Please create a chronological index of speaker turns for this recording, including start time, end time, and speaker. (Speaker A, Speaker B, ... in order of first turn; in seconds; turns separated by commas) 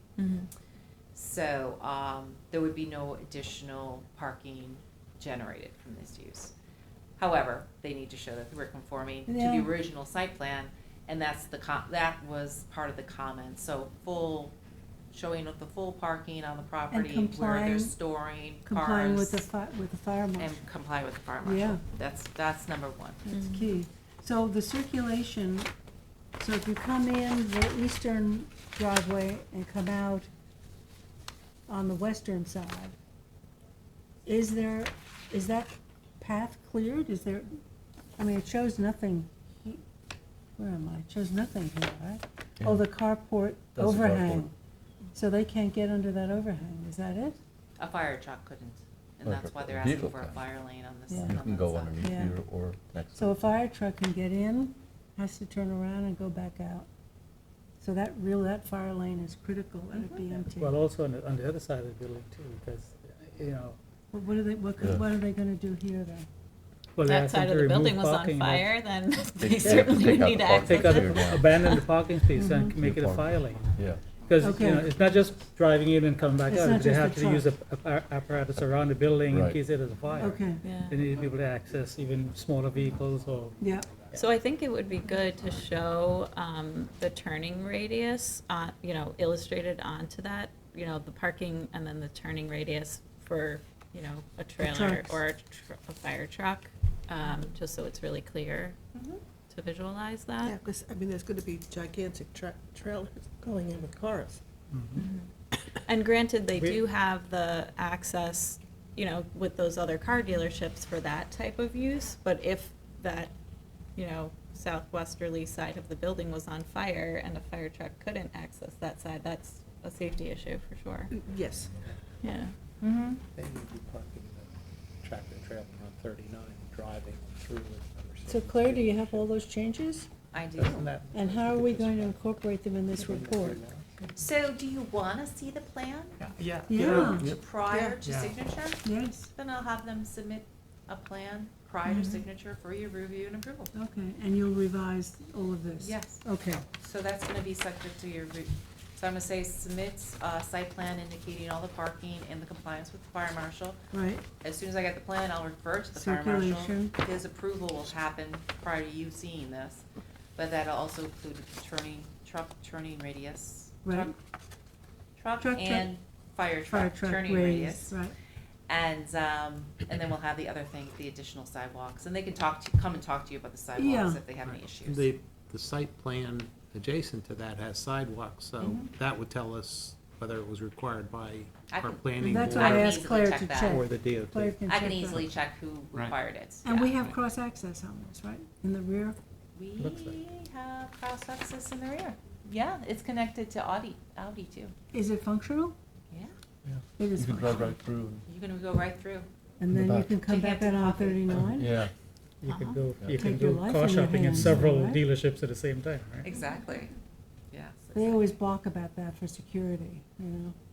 Speaker A: 0.2-0.5, Speaker B: 1.1-6.5, Speaker B: 7.2-14.6, Speaker C: 9.3-9.7, Speaker B: 15.1-19.5, Speaker C: 16.9-18.0, Speaker C: 18.7-20.7, Speaker B: 20.4-23.2, Speaker C: 21.4-21.8, Speaker A: 23.3-23.8, Speaker C: 23.3-25.7, Speaker C: 26.4-30.3, Speaker C: 31.7-32.9, Speaker C: 34.3-37.5, Speaker C: 38.2-39.8, Speaker C: 40.6-44.5, Speaker D: 42.6-42.9, Speaker D: 43.8-44.5, Speaker C: 45.1-47.4, Speaker B: 47.8-52.1, Speaker D: 49.2-50.4, Speaker C: 51.1-51.4, Speaker D: 51.2-53.4, Speaker C: 52.0-52.4, Speaker C: 53.1-56.9, Speaker C: 57.8-60.8, Speaker B: 60.0-60.3, Speaker E: 60.6-63.8, Speaker C: 64.1-66.3, Speaker E: 67.0-68.7, Speaker A: 67.0-71.8, Speaker D: 69.2-71.6, Speaker E: 70.5-84.2, Speaker C: 72.3-72.8, Speaker D: 72.8-74.0, Speaker C: 74.4-74.9, Speaker C: 76.5-77.5, Speaker D: 79.3-79.6, Speaker C: 80.2-80.7, Speaker A: 80.6-81.0, Speaker C: 83.6-83.9, Speaker A: 84.1-98.8, Speaker C: 94.6-95.2, Speaker B: 98.9-99.2, Speaker A: 99.5-100.5, Speaker F: 100.4-104.4, Speaker E: 104.7-105.0, Speaker A: 105.0-105.3, Speaker A: 105.9-113.3, Speaker E: 106.5-106.8, Speaker A: 114.0-121.1, Speaker F: 121.1-121.8, Speaker A: 122.2-122.5, Speaker B: 122.8-123.2, Speaker G: 123.3-129.3, Speaker C: 128.3-130.1, Speaker B: 130.3-130.9, Speaker G: 130.6-132.2, Speaker C: 131.1-133.6, Speaker G: 132.9-133.9, Speaker B: 134.1-136.2, Speaker E: 136.2-137.2, Speaker C: 136.7-137.3, Speaker B: 136.9-143.7, Speaker F: 137.7-138.0, Speaker E: 138.0-138.4, Speaker C: 138.8-139.3, Speaker C: 141.9-142.2, Speaker C: 143.7-146.7, Speaker B: 145.8-146.2, Speaker B: 146.8-153.8, Speaker C: 153.9-154.3, Speaker B: 154.4-159.8, Speaker C: 155.9-156.9, Speaker B: 160.4-164.2, Speaker C: 163.8-164.2, Speaker B: 165.2-168.0, Speaker C: 165.4-165.9, Speaker C: 166.7-168.2, Speaker B: 168.7-175.1, Speaker C: 173.8-174.2, Speaker G: 174.4-183.1, Speaker B: 178.6-178.9, Speaker B: 181.7-183.8, Speaker C: 182.2-185.3, Speaker G: 183.6-185.3, Speaker B: 184.7-187.0, Speaker C: 186.6-189.2, Speaker B: 189.6-194.7, Speaker G: 189.8-190.1, Speaker C: 194.9-195.8, Speaker C: 197.0-197.8, Speaker D: 197.2-198.3, Speaker B: 198.3-199.3, Speaker C: 199.6-201.8, Speaker D: 199.7-200.1, Speaker B: 200.3-201.3, Speaker D: 201.4-201.9, Speaker E: 202.4-206.3, Speaker A: 202.4-202.8, Speaker D: 203.0-203.3, Speaker C: 203.1-205.0, Speaker D: 204.3-204.6, Speaker B: 206.2-206.9, Speaker C: 206.3-206.8, Speaker B: 207.5-208.3, Speaker C: 207.9-210.6